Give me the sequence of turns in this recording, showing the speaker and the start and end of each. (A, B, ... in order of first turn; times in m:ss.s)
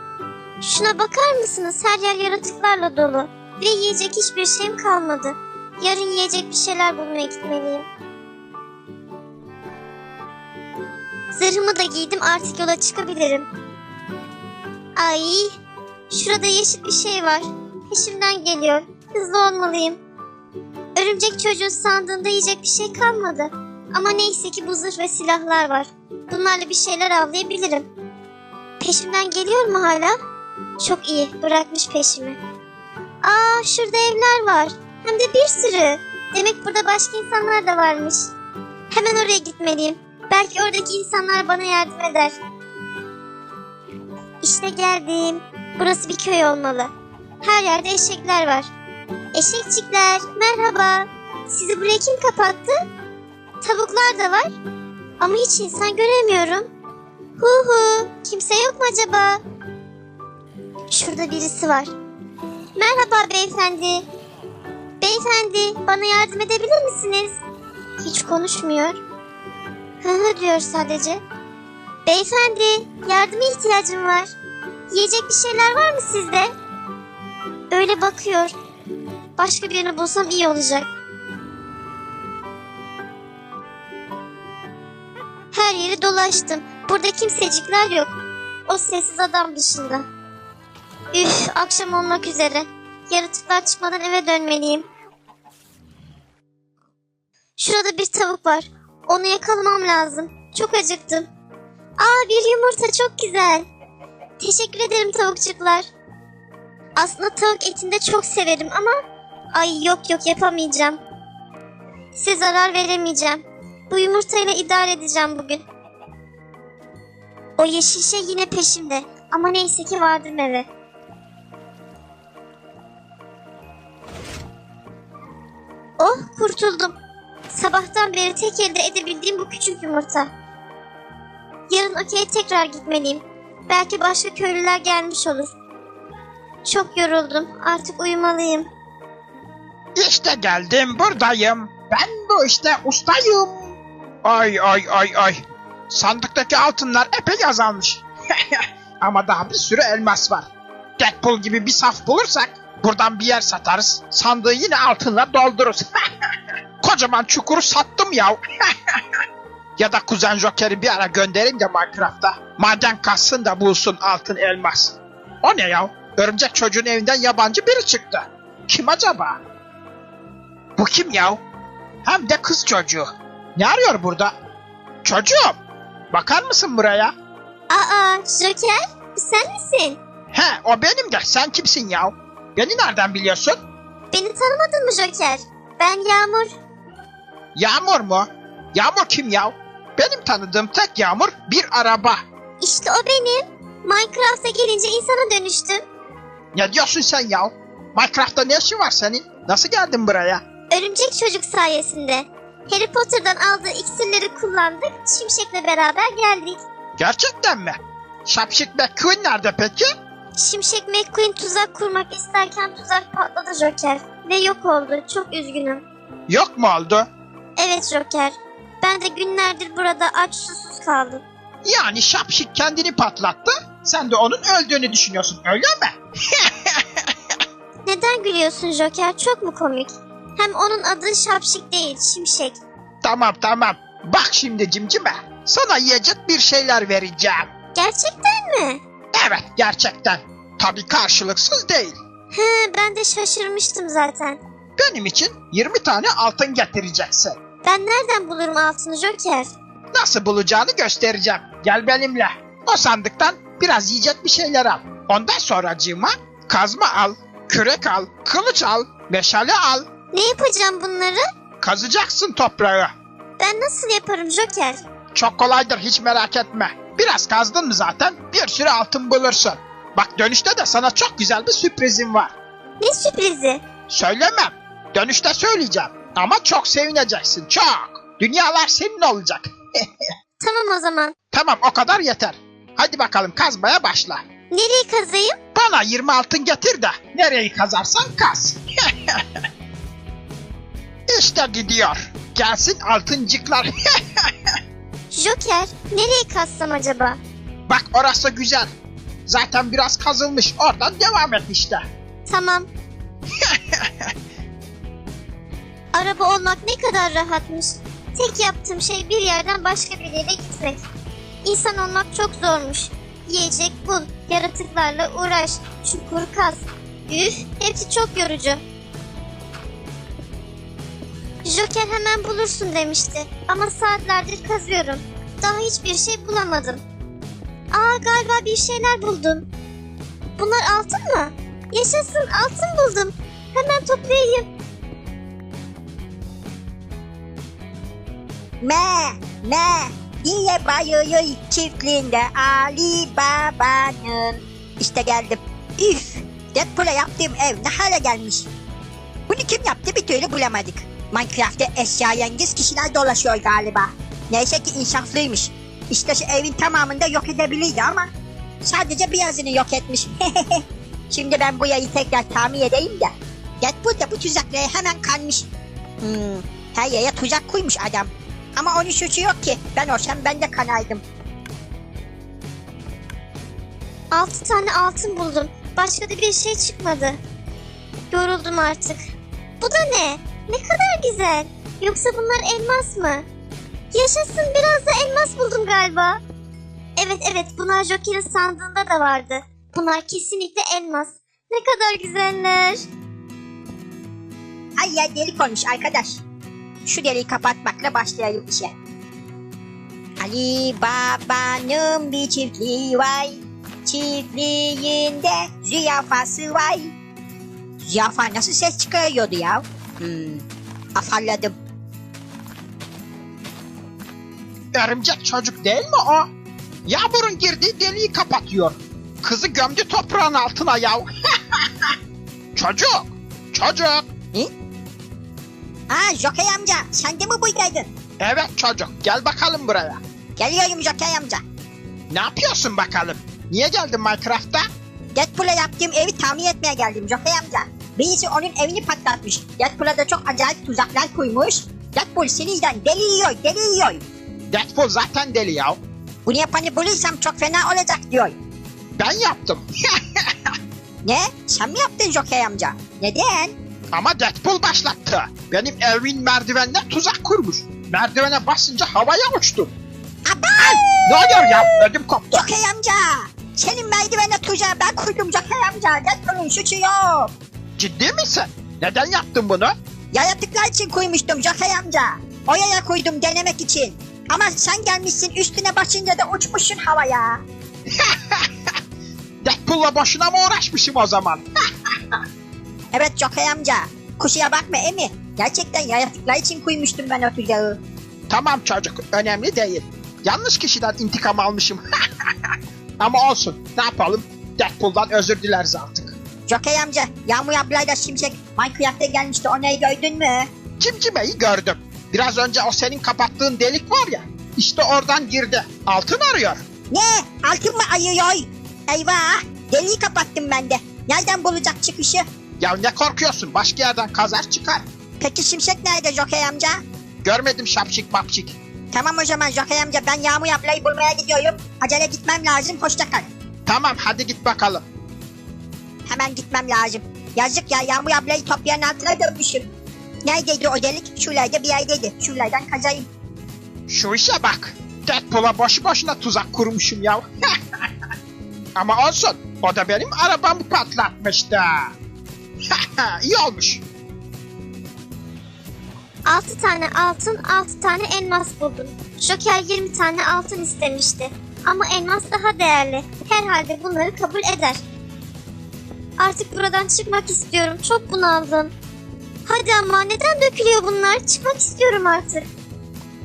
0:00.6-0:07.9 A
0:11.3-0:13.5 A
0:15.0-0:15.6 A
0:16.1-0:20.0 A
0:21.0-0:27.9 A
0:28.8-0:30.2 A
0:30.8-0:32.4 A
0:33.2-0:38.3 A
0:38.9-0:42.4 A
0:44.4-0:46.9 A
0:47.4-0:48.7 A
0:49.4-0:52.8 A
0:53.6-0:54.6 A
0:55.2-0:56.7 A
0:57.4-0:59.4 A
1:00.9-1:01.9 A
1:02.8-1:04.1 A
1:05.0-1:07.4 A
1:08.0-1:09.0 A
1:10.0-1:11.2 A
1:12.0-1:14.3 A
1:14.9-1:16.5 A
1:17.7-1:18.5 A
1:19.4-1:20.9 A
1:25.5-1:30.1 A
1:31.1-1:34.9 A
1:37.6-1:41.3 A
1:42.0-1:43.7 A
1:44.4-1:45.9 A
1:47.0-1:49.0 A
1:49.5-1:51.0 A
1:52.2-1:55.6 A
1:57.6-2:00.7 A
2:06.0-2:07.0 A
2:07.5-2:10.3 A
2:11.7-2:15.5 A
2:16.6-2:18.7 A
2:20.0-2:35.9 B
2:36.8-2:39.0 B
2:39.8-2:49.4 B
2:50.8-2:51.4 B
2:52.0-2:54.4 B
2:55.0-2:55.6 B
2:56.1-2:57.1 B
2:57.7-3:00.0 A
3:00.3-3:03.6 B
3:04.1-3:06.6 A
3:07.6-3:12.2 B
3:12.6-3:15.8 A
3:16.5-3:20.4 B
3:20.7-3:26.6 A
3:27.0-3:29.9 B
3:30.4-3:35.8 A
3:36.3-3:37.1 B
3:37.6-3:41.2 A
3:41.6-3:47.1 B
3:47.9-3:52.6 A
3:53.0-3:57.5 B
3:57.8-3:58.8 A
3:59.1-4:02.0 B
4:02.3-4:04.4 A
4:04.8-4:07.4 B
4:07.6-4:09.5 A
4:09.9-4:19.9 B
4:20.1-4:21.2 A
4:21.6-4:22.9 B
4:23.4-4:24.8 A
4:25.1-4:32.3 B
4:32.8-4:33.6 A
4:33.9-4:39.9 B
4:40.4-4:41.1 A
4:41.3-4:44.2 B
4:44.5-4:45.4 A
4:45.6-4:49.2 B
4:51.1-4:54.3 B
4:55.1-4:57.2 A
4:57.7-4:58.7 B
4:59.3-5:01.8 B
5:02.3-5:02.7 A
5:03.4-5:04.1 B
5:05.9-5:10.9 A
5:11.4-5:18.6 A
5:21.4-5:26.8 A
5:27.7-5:29.5 A
5:30.4-5:34.5 A
5:38.6-5:48.5 C
5:49.3-5:58.1 C
5:58.6-6:05.5 C
6:06.0-6:11.0 C
6:14.1-6:17.2 A
6:18.1-6:19.0 A
6:19.6-6:23.2 A
6:23.9-6:26.2 A
6:27.0-6:32.9 A
6:34.8-6:36.2 C
6:36.8-6:38.7 C
6:40.2-6:46.9 C
6:47.8-6:50.4 C
6:51.0-6:51.6 C
6:54.7-6:56.3 B
6:56.9-7:01.9 B
7:02.6-7:04.1 B
7:05.9-7:07.9 C
7:08.2-7:10.0 B
7:10.4-7:11.4 C
7:12.1-7:14.7 B
7:15.2-7:24.0 C
7:24.5-7:25.8 B
7:26.2-7:28.4 C
7:29.0-7:30.5 B
7:31.0-7:33.6 C
7:33.9-7:39.7 B
7:40.3-7:41.7 C
7:40.6-7:42.5 B
7:42.3-7:47.3 C
7:47.8-7:49.7 B
7:50.1-7:57.4 C
7:58.0-7:58.5 B
7:59.4-8:01.4 B
8:02.9-8:07.8 C
8:08.3-8:11.8 B
8:13.0-8:16.2 B
8:16.5-8:20.5 C
8:20.8-8:26.6 B
8:26.9-8:32.2 C
8:32.6-8:34.8 B
8:35.2-8:36.8 C
8:37.2-8:38.6 B
8:38.9-8:43.3 C
8:43.7-8:44.8 B
8:46.1-8:49.7 C
8:50.2-8:53.1 C
8:53.9-8:57.3 B
8:58.8-9:01.9 B
9:02.7-9:03.8 B
9:06.3-9:14.8 A
9:16.2-9:18.7 A
9:19.5-9:22.5 A